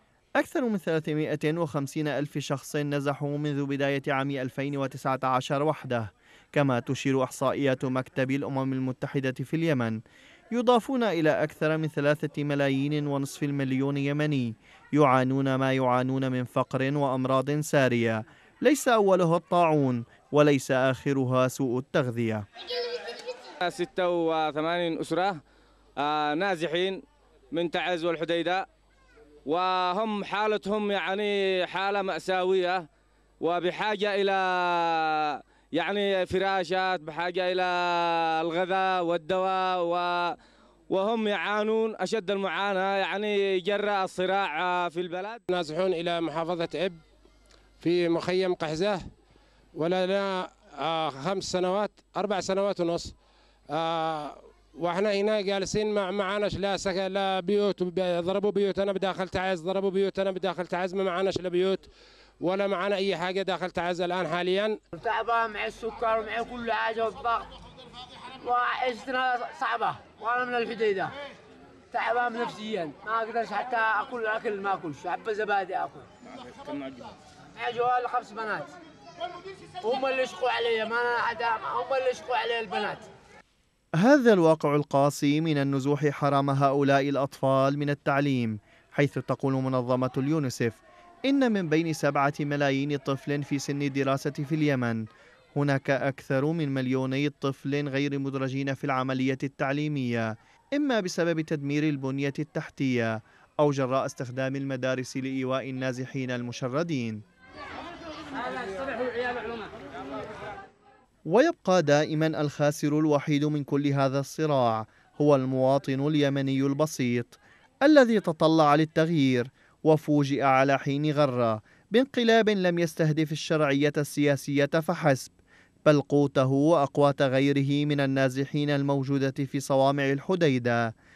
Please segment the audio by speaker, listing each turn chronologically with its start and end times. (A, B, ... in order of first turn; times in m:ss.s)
0:00.4-0:10.0 A
0:10.5-0:22.4 A
0:23.6-0:25.4 B
0:26.0-0:28.7 B
0:29.5-0:32.9 B
0:33.4-0:40.3 B
0:40.9-0:45.4 B
0:45.5-0:47.0 C
0:47.8-0:49.0 C
0:49.8-0:53.2 C
0:53.7-1:01.9 C
1:02.4-1:04.8 C
1:04.9-1:07.5 D
1:08.4-1:11.1 D
1:11.9-1:16.1 D
1:16.7-1:17.1 B
1:17.5-1:18.7 D
1:19.8-1:23.1 D
1:24.0-1:35.0 A
1:35.6-1:47.2 A
1:51.3-2:05.3 A
2:05.9-2:10.9 A